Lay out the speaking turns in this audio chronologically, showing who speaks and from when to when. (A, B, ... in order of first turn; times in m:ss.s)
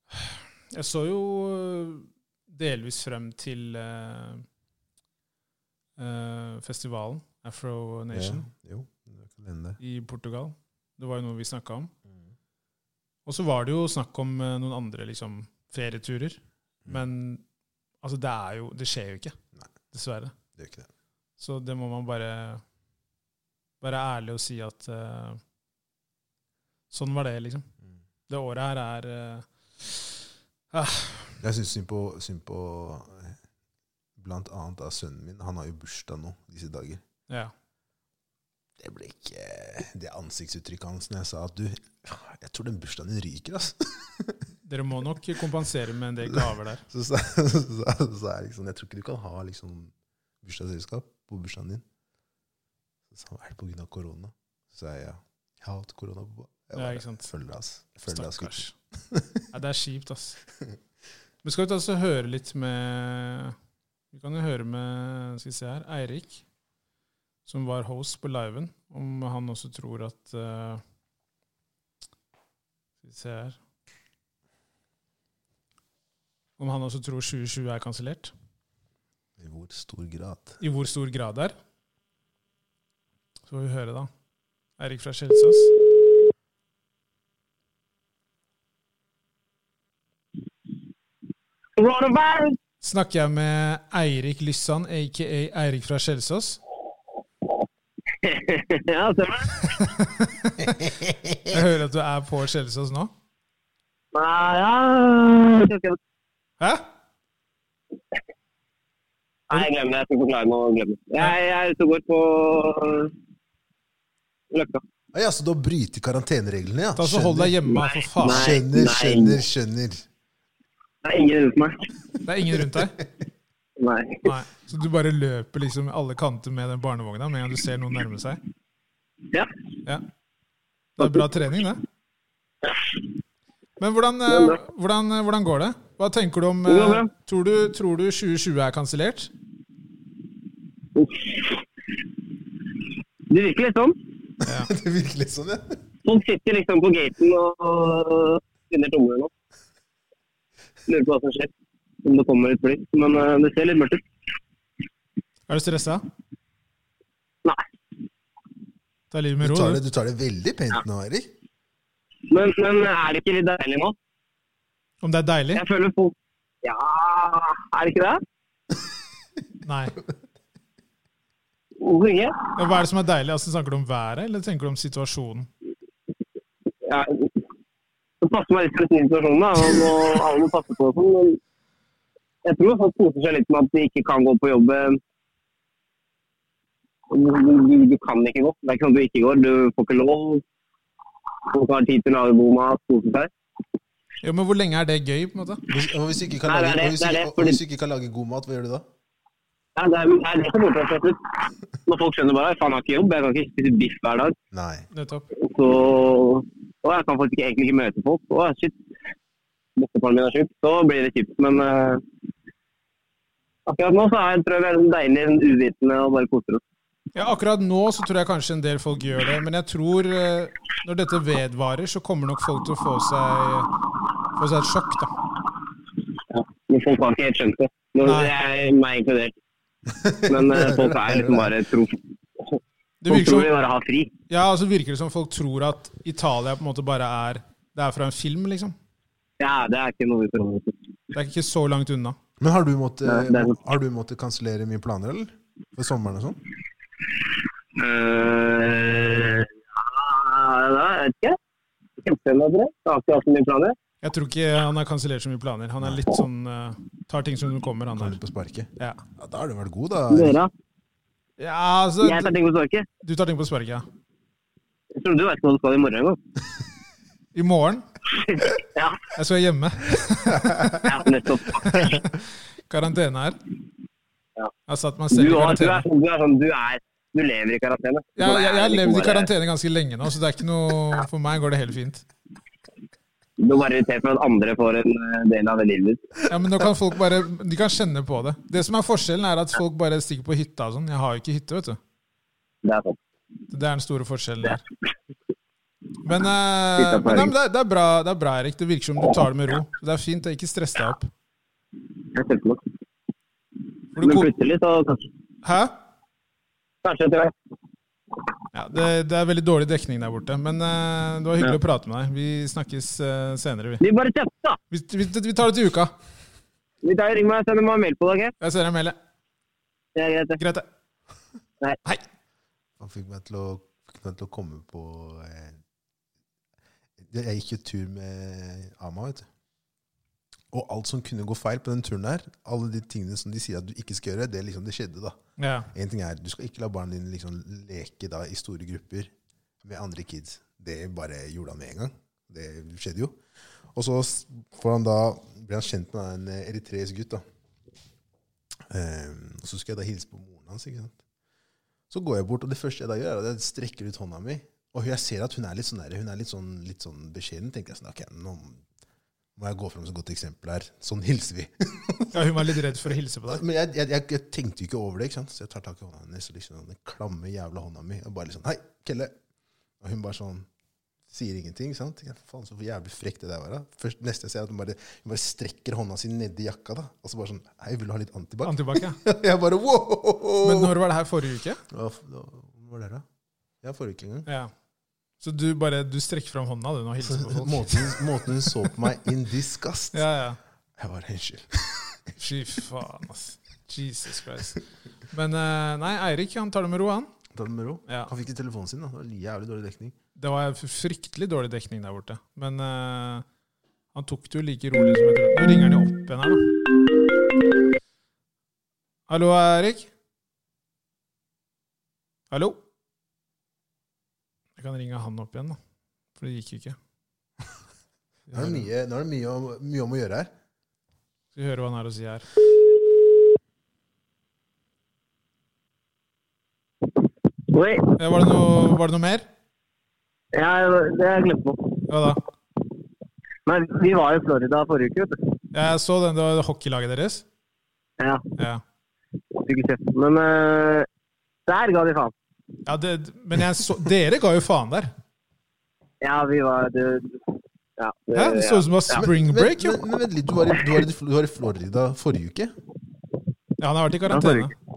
0:00.1-0:04.4 A
0:06.0-0:08.5 A
0:08.1-0:09.8 B
0:09.8-0:11.9 A
0:13.3-0:17.4 A
0:18.0-0:19.4 A
0:19.9-0:20.3 A
0:20.6-0:20.9 B
0:21.4-0:22.6 A
0:23.8-0:25.4 A
0:26.9-0:27.7 A
0:28.3-0:31.4 A
0:31.4-0:33.4 B
0:34.2-0:37.0 B
0:38.8-0:44.4 B
0:44.6-0:46.8 A
0:46.2-0:51.8 B
0:53.1-0:59.4 B
0:56.8-0:57.3 A
0:58.1-0:58.8 A
0:59.5-1:00.4 A
1:01.4-1:03.6 A
1:04.1-1:06.4 A
1:07.5-1:10.8 A
1:13.0-1:13.6 A
1:16.6-1:18.3 A
1:19.4-1:20.6 B
1:20.6-1:21.6 A
1:23.5-1:24.1 A
1:24.8-1:25.7 A
1:31.8-1:32.6 C
1:32.8-1:36.6 A
1:38.2-1:40.0 C
1:40.6-1:41.4 B
1:41.5-1:43.1 A
1:44.1-1:46.0 C
1:46.6-1:46.9 A
1:49.5-1:53.1 C
1:54.5-1:54.8 C
1:55.1-1:57.6 B
1:57.0-1:58.6 A
1:57.8-1:59.4 C
1:58.2-2:00.1 B
2:01.0-2:01.8 C
2:02.2-2:03.0 A
2:03.8-2:04.3 C
2:04.2-2:08.4 A
2:11.0-2:11.8 A
2:13.8-2:19.3 A
2:14.3-2:14.6 C
2:16.7-2:17.1 C
2:21.0-2:21.6 C
2:23.3-2:24.0 C
2:24.4-2:24.7 A
2:24.6-2:25.8 B
2:26.0-2:29.3 C
2:30.9-2:31.5 C
2:32.0-2:34.0 C
2:35.5-2:36.0 A
2:39.1-2:39.8 A
2:39.4-2:41.3 B
2:42.3-2:44.0 C
2:45.0-2:45.6 A
2:45.6-2:48.2 C
2:49.6-2:50.0 A
2:51.8-2:52.6 C
2:52.6-2:55.5 A
2:56.8-2:57.4 C
2:58.2-3:01.4 C
3:02.4-3:05.0 C
3:07.1-3:10.4 C
3:11.5-3:13.3 C
3:14.2-3:15.6 A
3:15.7-3:18.8 B
3:16.4-3:17.6 C
3:19.8-3:24.4 C
3:24.5-3:24.9 B
3:24.9-3:25.2 A
3:25.4-3:28.8 C
3:29.8-3:32.0 C
3:33.7-3:36.6 C
3:37.2-3:43.7 A
3:44.4-3:45.1 A
3:46.3-3:49.4 C
3:48.0-3:48.4 A
3:49.9-3:51.5 B
3:50.3-3:52.0 C
3:52.5-3:54.1 C
3:53.0-3:53.5 A
3:54.3-3:58.8 A
3:59.4-4:00.8 C
4:01.2-4:02.2 A
4:02.4-4:06.4 B
4:03.1-4:03.6 C
4:07.8-4:11.4 C
4:12.0-4:13.8 C
4:14.0-4:18.2 A
4:17.9-4:20.4 B
4:20.1-4:20.5 C
4:21.4-4:22.3 A
4:22.0-4:22.9 C
4:23.0-4:23.8 A
4:25.0-4:26.2 C
4:27.4-4:27.8 A
4:28.1-4:29.0 C
4:29.2-4:30.5 A
4:30.4-4:30.8 B
4:30.8-4:32.0 C
4:31.7-4:32.0 A
4:32.7-4:33.4 A
4:34.7-4:35.8 A
4:35.1-4:39.3 C
4:38.2-4:42.0 A
4:43.4-4:46.2 C
4:46.3-4:51.8 A
4:52.6-4:53.0 C
4:53.5-4:54.6 A
4:56.0-5:01.1 A
4:56.8-4:57.3 C
5:02.1-5:02.6 C
5:04.0-5:04.3 A
5:04.0-5:05.1 C
5:05.4-5:05.8 A
5:06.8-5:07.3 C
5:08.5-5:13.8 A
5:13.8-5:14.6 C
5:14.7-5:15.9 A
5:16.8-5:18.3 C
5:18.4-5:19.0 A
5:20.0-5:20.4 C
5:20.4-5:20.7 A
5:22.8-5:25.6 B
5:27.0-5:29.3 B
5:30.5-5:35.2 B
5:35.4-5:35.7 A
5:35.7-5:39.1 B
5:39.6-5:43.2 B
5:43.7-5:47.2 B
5:48.7-5:51.0 B
5:51.9-5:58.6 B
5:59.4-6:02.6 B
6:02.1-6:03.4 A
6:03.3-6:09.1 B
6:09.8-6:10.5 B
6:11.1-6:20.7 B
6:18.4-6:19.0 A
6:20.4-6:21.6 A
6:21.7-6:23.0 B
6:23.6-6:24.3 B
6:24.3-6:24.5 A
6:25.2-6:28.0 A
6:27.0-6:30.0 B
6:29.9-6:30.4 A
6:30.8-6:32.1 B
6:32.2-6:37.1 A
6:37.3-6:40.0 B
6:37.9-6:38.1 A
6:40.2-6:43.2 A
6:43.9-6:46.6 A
6:49.1-6:49.9 A
6:52.3-6:52.6 A
6:54.6-6:55.6 A
6:56.2-6:56.8 A
6:58.3-6:58.7 A
6:58.3-7:00.3 B
7:01.3-7:02.3 A
7:07.5-7:08.0 C
7:08.0-7:09.3 A
7:10.3-7:11.8 C
7:11.9-7:12.2 A
7:13.5-7:15.3 C
7:15.5-7:17.2 A
7:18.0-7:18.3 C
7:19.4-7:20.9 C
7:21.5-7:22.1 C
7:22.7-7:24.9 A
7:26.0-7:29.0 C
7:28.1-7:29.8 A
7:29.0-7:32.5 B
7:33.6-7:34.5 A
7:34.1-7:34.5 C